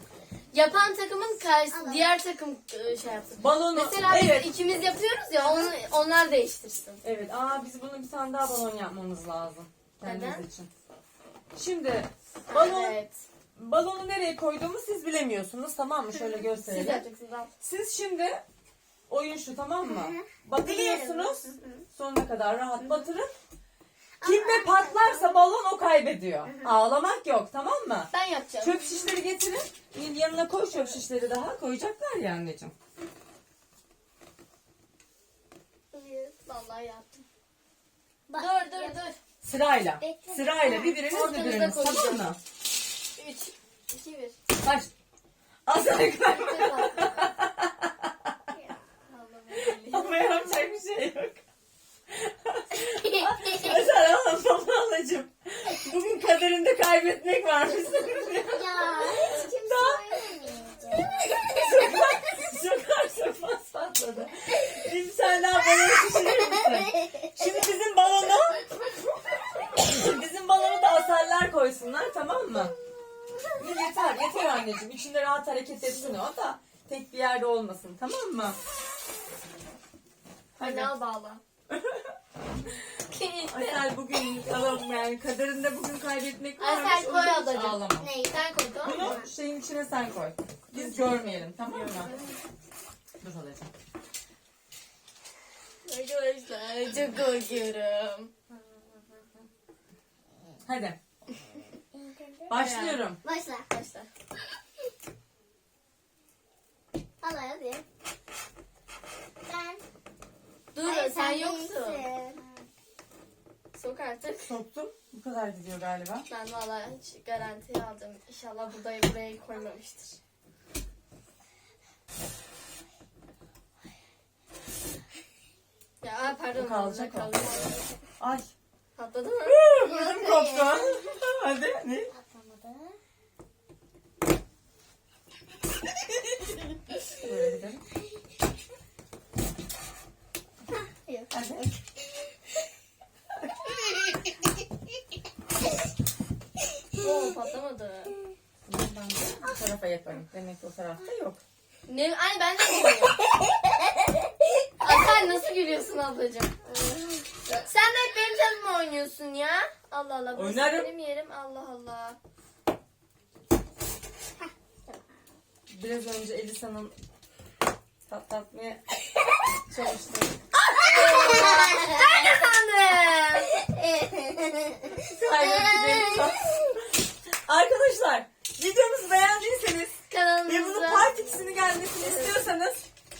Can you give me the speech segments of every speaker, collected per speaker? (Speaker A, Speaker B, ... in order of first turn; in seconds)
Speaker A: 0.5-7.0, 10.0-10.4, 12.5-13.1, 16.6-17.5, 28.1-29.2, 35.9-37.2, 38.4-39.2, 41.1-42.2, 43.2-44.4, 46.2-47.3, 49.5-50.5, 80.6-81.4, 83.1-83.9, 86.6-89.2, 90.8-91.5, 95.9-98.3, 102.5-103.0, 103.7-104.1, 110.7-112.1, 113.7-114.5, 116.3-120.2, 126.0-127.8, 129.0-130.8, 147.0-148.2, 151.9-153.2, 154.8-156.6, 157.5-162.2, 170.8-173.6, 180.1-181.4, 182.0-182.4
Speaker B: 1.7-2.2, 5.5-5.7, 19.8-21.9, 24.2-25.4, 26.5-26.7, 38.3-39.0, 40.0-41.0, 48.5-49.8, 53.1-53.7, 58.3-62.2, 66.0-67.5, 88.0-89.3, 98.5-99.3, 101.9-102.6, 103.2-103.7, 107.2-107.8, 109.5-109.8, 110.8-112.7, 132.1-133.0, 140.8-141.7, 156.8-157.2, 170.8-172.4, 173.5-176.4
Speaker C: 3.4-4.5, 7.0-10.7, 11.6-13.0, 13.6-17.0, 17.6-18.4, 19.1-23.3, 24.2-28.1, 28.6-32.7, 39.4-42.4, 44.6-44.9, 45.7-48.4, 49.9-51.4, 52.1-60.0, 61.5-68.7, 69.7-72.7, 73.6-78.6, 80.6-80.9, 81.7-82.1, 83.5-88.1, 88.8-92.1, 93.2-93.7, 100.7-101.0, 102.5-103.2, 114.5-116.3, 126.5-127.6, 128.2-128.5, 129.5-132.1, 137.1-137.8, 141.3-141.7, 148.7-151.4, 160.3-160.9, 165.7-166.9, 168.1-168.8, 169.7-171.6, 175.0-182.8